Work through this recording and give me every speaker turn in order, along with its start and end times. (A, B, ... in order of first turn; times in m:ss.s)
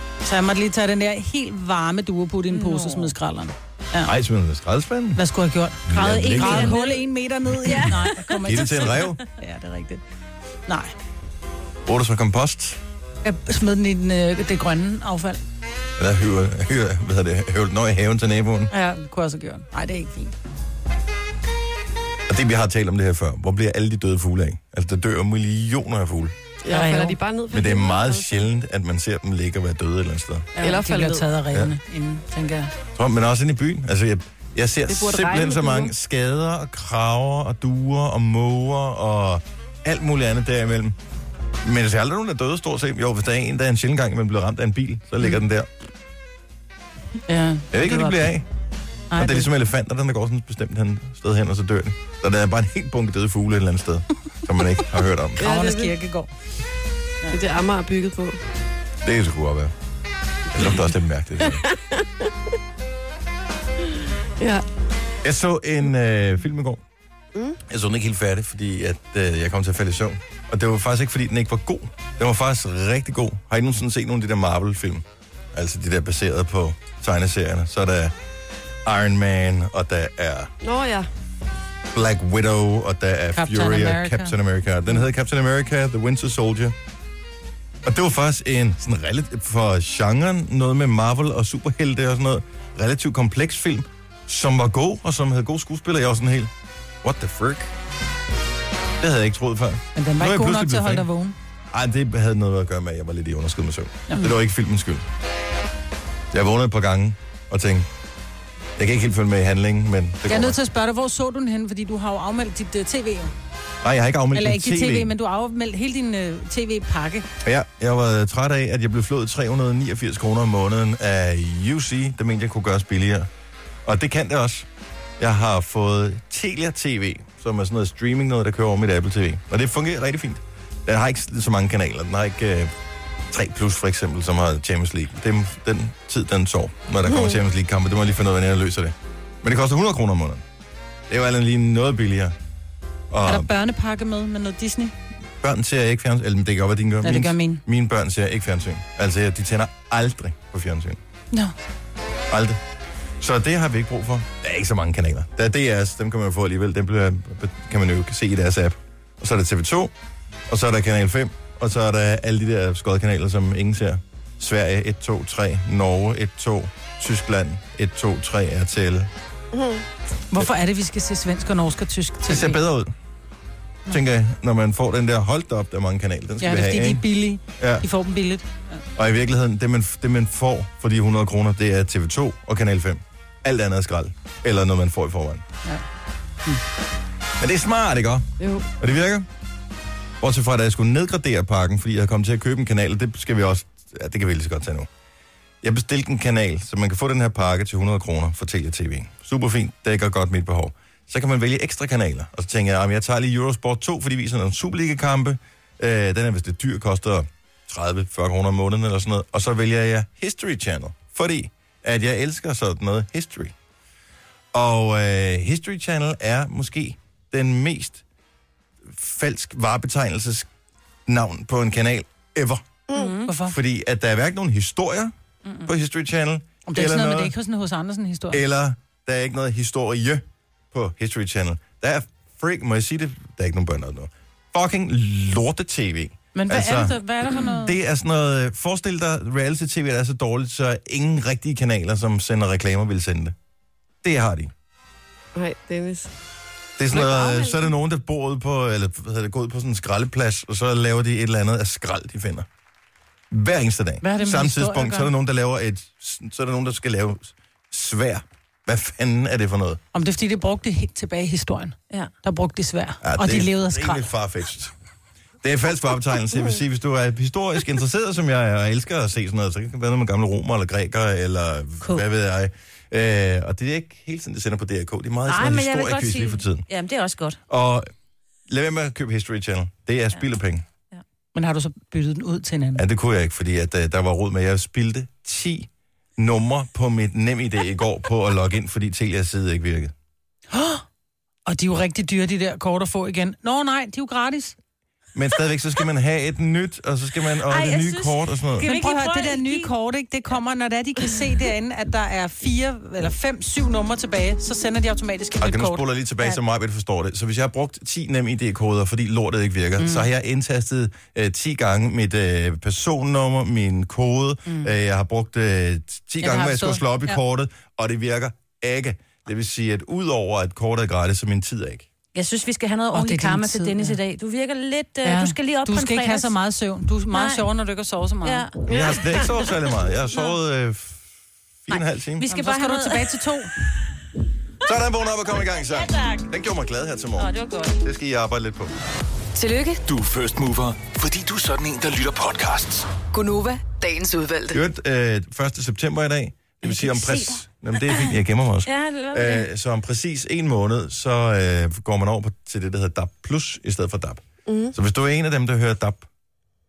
0:00.2-0:04.1 A
0:02.5-0:03.1 B
0:04.0-0:05.2 C
0:05.1-0:10.0 A
0:05.8-0:06.9 C
0:06.0-0:07.0 B
0:07.6-0:08.6 B
0:07.7-0:09.2 C
0:10.7-0:10.9 A
0:11.8-0:12.8 C
0:13.2-0:15.4 A
0:16.0-0:18.7 C
0:18.7-0:20.3 A
0:22.3-0:26.4 C
0:26.6-0:28.5 D
0:26.7-0:27.2 A
0:27.5-0:30.5 C
0:30.5-0:32.7 A
0:30.6-0:31.3 D
0:32.9-0:41.0 C
0:34.9-0:35.9 D
0:41.6-0:45.7 C
0:47.3-0:48.3 A
0:47.7-0:48.5 C
0:49.1-0:49.5 A
0:49.1-0:55.4 C
0:55.4-0:55.9 D
0:55.4-0:56.3 A
0:57.3-0:58.4 D
0:59.0-0:59.7 C
1:00.5-1:01.6 C
1:01.5-1:02.3 D
1:04.4-1:04.6 D
1:05.2-1:06.8 C
1:07.6-1:18.1 C
1:18.8-1:20.5 C
1:20.6-1:21.1 D
1:21.9-1:26.8 C
1:23.3-1:24.3 A
1:27.8-1:36.5 C
1:37.0-1:37.7 C
1:39.0-1:41.1 C
1:39.9-1:41.4 A
1:41.7-1:45.0 C
1:46.3-1:47.9 C
1:48.8-1:50.6 C
1:50.3-1:53.3 A
1:53.8-1:55.1 C
1:54.3-1:57.3 A
1:57.4-2:03.3 C
2:03.8-2:04.7 C
2:05.2-2:12.7 C
2:13.3-2:20.4 C
2:17.0-2:17.4 D
2:21.1-2:22.4 C
2:23.1-2:23.5 C
2:23.2-2:24.9 A
2:25.4-2:31.0 C
2:27.0-2:27.6 A
2:32.3-2:32.6 C
2:33.2-2:39.9 C
2:40.5-2:49.1 C
2:49.5-2:49.8 D
2:50.3-2:52.6 A
2:52.3-2:52.9 C
2:53.9-2:57.0 C
2:56.4-2:58.8 A
2:57.6-2:57.8 C
2:59.0-3:05.4 C
3:07.4-3:08.3 C
3:08.4-3:08.7 D
3:08.8-3:09.3 C
3:10.2-3:14.9 C
3:15.6-3:33.5 C
3:34.5-3:38.0 C
3:38.8-3:40.5 C
3:41.1-3:42.6 C
3:42.9-3:43.3 B
3:43.2-3:43.6 A
3:43.4-3:45.1 C
3:45.6-3:47.3 C
3:46.6-3:48.4 A
3:48.3-4:03.3 C
3:56.3-3:57.8 A
4:04.0-4:04.5 C
4:05.3-4:06.1 D
4:06.8-4:12.5 C
4:06.9-4:07.7 D
4:13.3-4:19.8 C
4:14.0-4:15.1 A
4:19.9-4:24.1 A
4:23.0-4:24.7 C
4:25.4-4:36.6 C
4:35.3-4:37.4 B
4:37.5-4:37.9 C
4:38.5-4:40.6 C
4:41.3-4:42.8 A
4:42.8-4:49.9 C
4:50.5-4:50.8 A
4:51.5-4:54.6 A
4:55.1-4:58.7 C
4:57.5-4:59.7 B
4:58.6-5:05.8 A
5:05.4-5:21.9 C
5:16.2-5:17.2 A
5:22.1-5:26.3 B
5:22.9-5:24.0 A
5:25.0-5:28.5 A
5:27.1-5:27.4 B
5:28.2-5:28.6 B
5:28.7-5:31.0 C
5:28.7-5:29.1 D
5:31.6-5:32.2 C
5:31.7-5:33.2 B
5:32.3-5:33.5 A
5:34.6-5:37.3 C
5:35.4-5:36.3 B
5:37.2-5:37.8 B
5:37.8-5:38.7 C
5:39.3-5:39.8 E
5:39.9-5:42.9 F
5:43.1-5:44.6 E
5:44.5-5:56.1 C
5:48.6-5:49.5 B
5:54.5-5:54.7 D